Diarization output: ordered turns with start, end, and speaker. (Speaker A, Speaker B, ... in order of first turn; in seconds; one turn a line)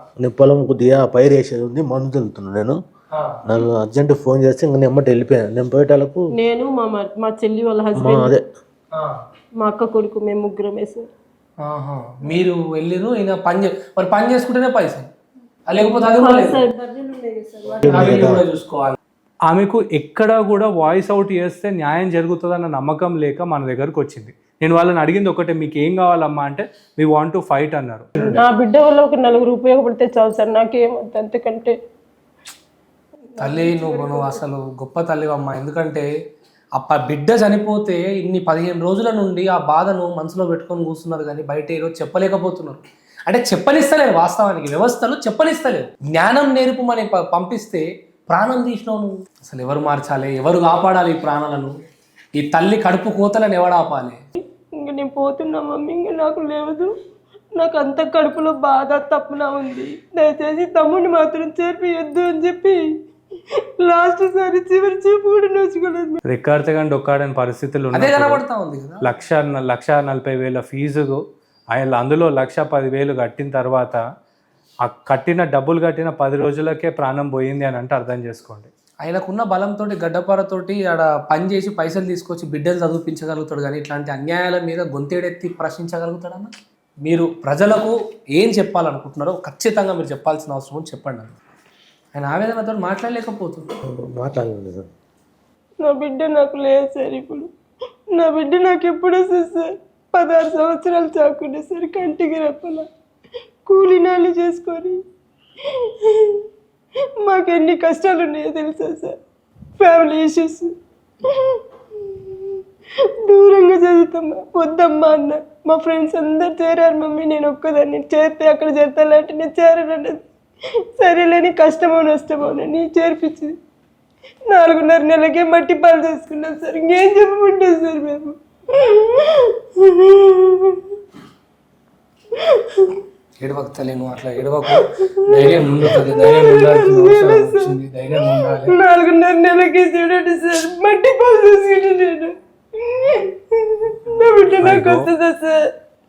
Speaker A: 0.2-2.8
Speaker B: 3.1-3.4
Speaker A: 3.4-6.2
Speaker C: 6.3-8.3
Speaker A: 8.0-8.4
Speaker C: 9.6-11.1
Speaker B: 11.6-15.1
Speaker B: 15.7-16.6
Speaker C: 15.9-18.2
Speaker A: 17.8-18.4
Speaker B: 17.9-18.9
Speaker D: 19.5-28.1
Speaker C: 28.2-31.7
Speaker B: 33.4-36.1
Speaker C: 33.4-34.4
Speaker B: 36.8-51.7
Speaker B: 52.4-54.2
Speaker C: 54.8-56.9
Speaker C: 57.5-62.8
Speaker C: 63.8-66.2
Speaker D: 66.3-68.4
Speaker B: 67.9-69.0
Speaker D: 69.0-71.2
Speaker D: 71.7-74.0
Speaker D: 74.8-78.7
Speaker B: 79.0-86.5
Speaker B: 87.0-91.3
Speaker B: 92.1-93.7
Speaker A: 94.0-94.9
Speaker C: 95.8-97.5
Speaker C: 98.1-102.9
Speaker C: 103.7-105.0
Speaker C: 105.8-106.4
Speaker C: 107.2-109.2
Speaker C: 109.8-110.7
Speaker C: 111.3-112.6
Speaker C: 113.2-120.2
Speaker C: 121.0-123.5
Speaker C: 124.5-130.8
Speaker C: 132.3-132.9
Speaker B: 133.4-138.8
Speaker C: 135.4-137.7
Speaker C: 138.7-145.6
Speaker D: 144.6-145.1